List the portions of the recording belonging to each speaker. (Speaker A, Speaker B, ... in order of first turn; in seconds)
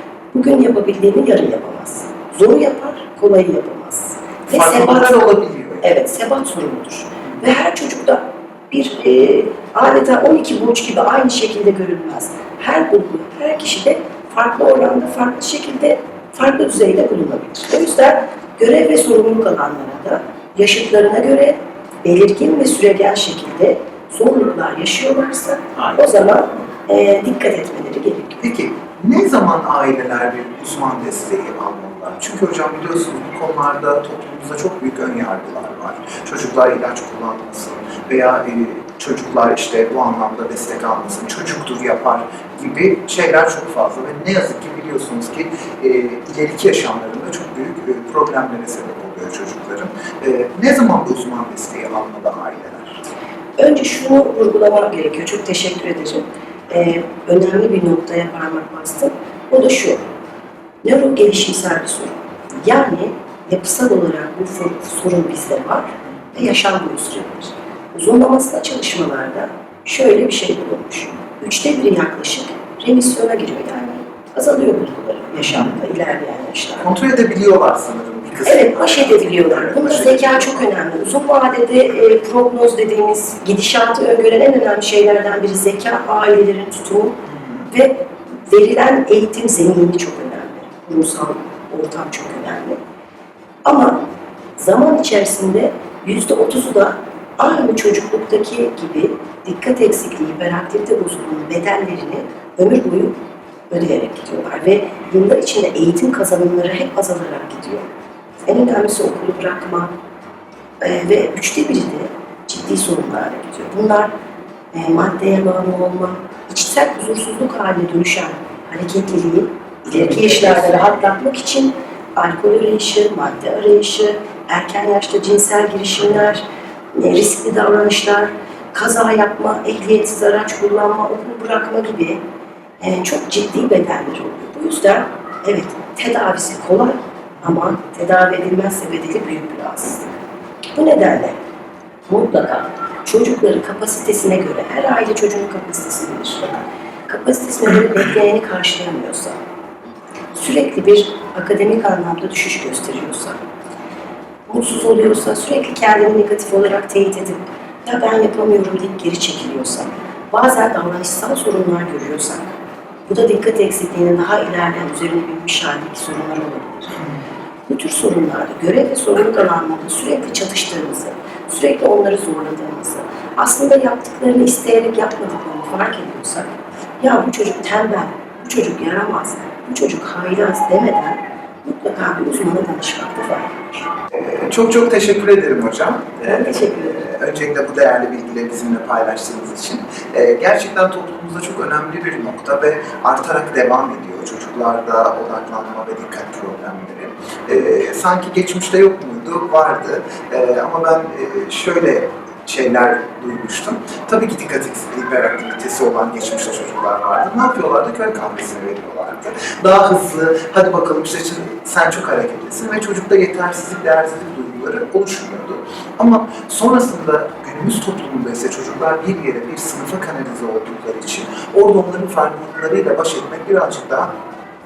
Speaker A: 0.3-28.4, 53.6-60.1, 60.8-76.9, 78.4-87.2, 87.7-92.8, 93.6-103.2, 103.7-107.9, 108.5-109.9, 110.8-114.1, 114.7-132.2, 132.8-140.1, 140.8-141.4, 142.1-149.4, 150.3-153.4, 154.5-162.5, 163.1-167.1, 167.7-183.6, 186.2-187.0
Speaker B: 4.5-5.8, 25.8-26.2, 28.4-53.0, 75.3-75.8, 76.8-80.7, 119.9-120.7, 184.1-224.1